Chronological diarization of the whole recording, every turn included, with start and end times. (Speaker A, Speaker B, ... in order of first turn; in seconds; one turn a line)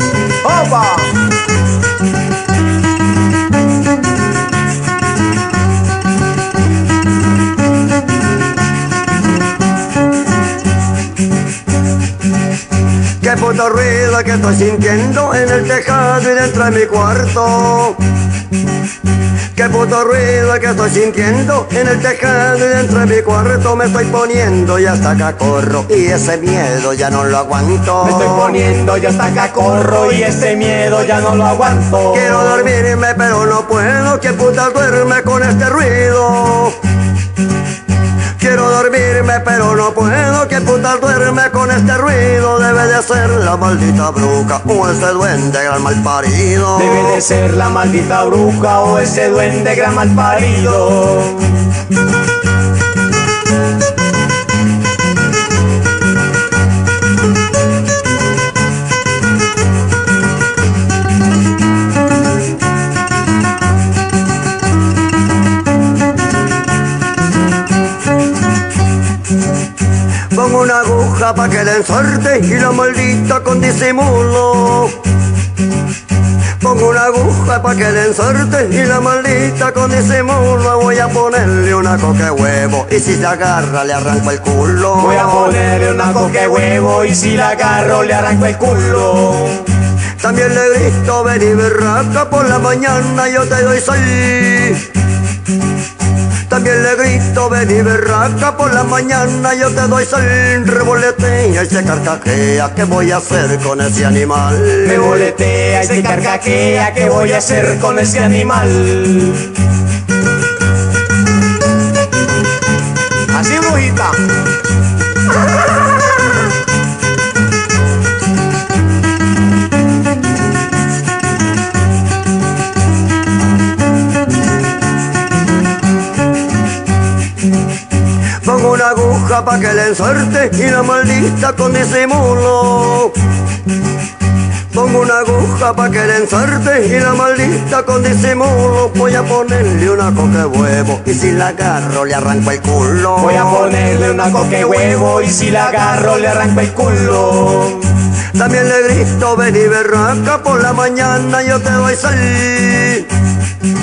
Speaker A: 0.4-1.1
Speaker B: 13.2-18.0
Speaker B: 19.6-28.6
Speaker A: 28.0-32.7
Speaker B: 32.1-36.8
Speaker B: 38.4-47.2
Speaker A: 46.8-51.7
Speaker B: 70.3-75.0
Speaker B: 76.6-85.6
Speaker A: 85.0-89.7
Speaker B: 90.2-94.9
Speaker B: 96.5-105.3
Speaker A: 104.8-109.6
Speaker A: 113.3-114.2
Speaker B: 128.4-133.2
Speaker B: 134.7-143.7
Speaker A: 143.2-147.9
Speaker B: 148.3-153.1